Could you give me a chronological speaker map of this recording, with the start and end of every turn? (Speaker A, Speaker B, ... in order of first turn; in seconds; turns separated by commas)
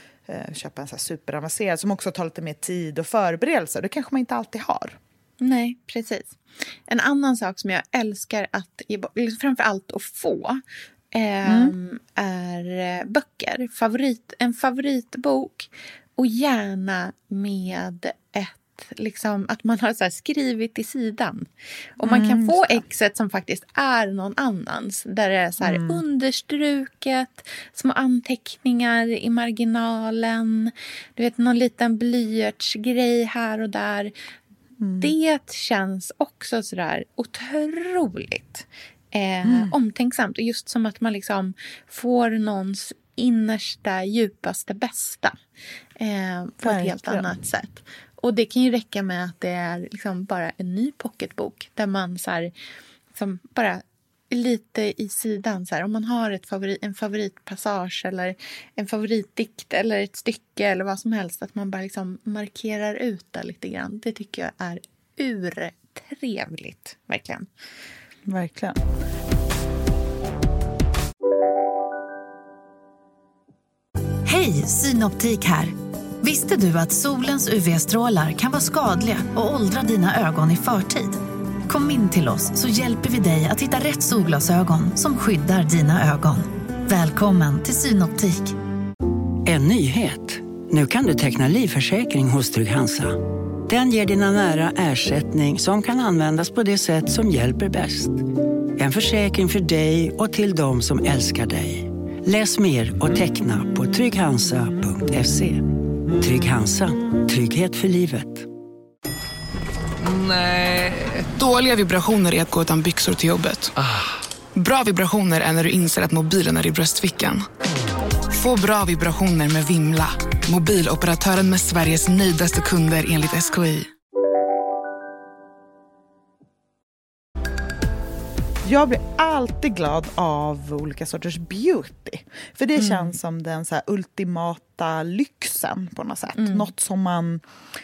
Speaker A: 0.3-5.0, Speaker B: 5.4-21.5, Speaker A: 11.4-11.7, Speaker B: 22.0-34.1, Speaker A: 22.0-22.8, Speaker A: 25.6-26.0, Speaker A: 34.8-35.1, Speaker B: 35.0-45.4, Speaker A: 39.4-39.7, Speaker B: 46.0-52.5, Speaker A: 46.6-47.3, Speaker B: 53.1-67.5, Speaker A: 68.2-68.8, Speaker C: 74.2-88.5, Speaker D: 89.4-98.2, Speaker D: 98.8-108.5, Speaker E: 110.0-113.9, Speaker E: 114.5-117.4, Speaker E: 118.3-123.9, Speaker A: 128.6-137.4, Speaker B: 132.8-133.1, Speaker B: 136.3-136.7